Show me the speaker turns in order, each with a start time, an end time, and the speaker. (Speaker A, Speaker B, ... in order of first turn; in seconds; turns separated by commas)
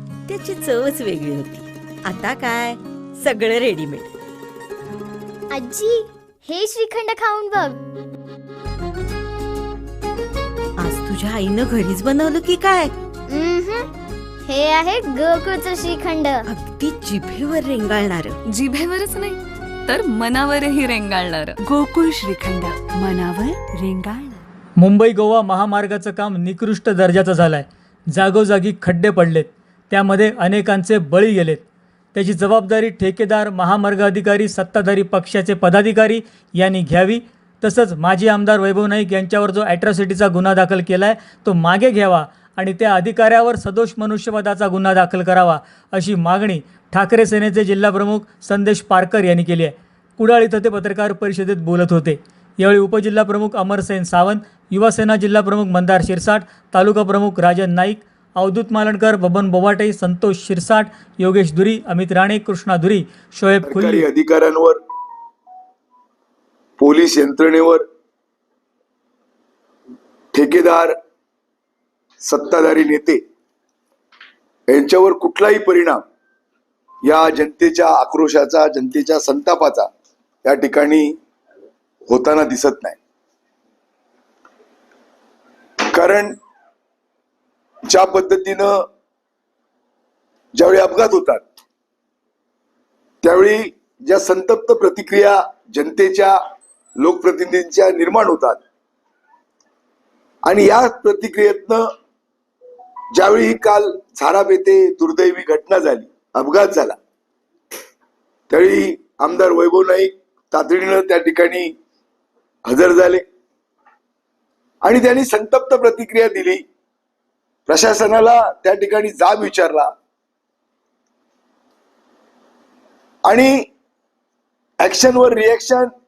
Speaker A: 0.3-4.0, Speaker B: 5.5-7.8, Speaker A: 10.8-12.9, Speaker B: 13.3-13.9, Speaker B: 14.4-16.4, Speaker A: 16.7-18.3, Speaker C: 18.5-21.5, Speaker D: 21.6-24.4, Speaker E: 24.8-64.1, Speaker F: 63.6-64.8, Speaker F: 66.8-67.8, Speaker F: 70.3-71.0, Speaker F: 72.2-73.2, Speaker F: 74.7-76.0, Speaker F: 77.0-79.9, Speaker F: 80.4-81.2, Speaker F: 82.1-83.0, Speaker F: 85.9-86.4, Speaker F: 87.9-88.8, Speaker F: 90.5-91.4, Speaker F: 93.2-96.4, Speaker F: 97.0-98.6, Speaker F: 100.4-101.9, Speaker F: 103.1-107.0, Speaker F: 108.5-111.7, Speaker F: 112.7-113.2, Speaker F: 114.8-116.6, Speaker F: 117.7-119.9, Speaker F: 123.3-123.7, Speaker F: 124.8-125.9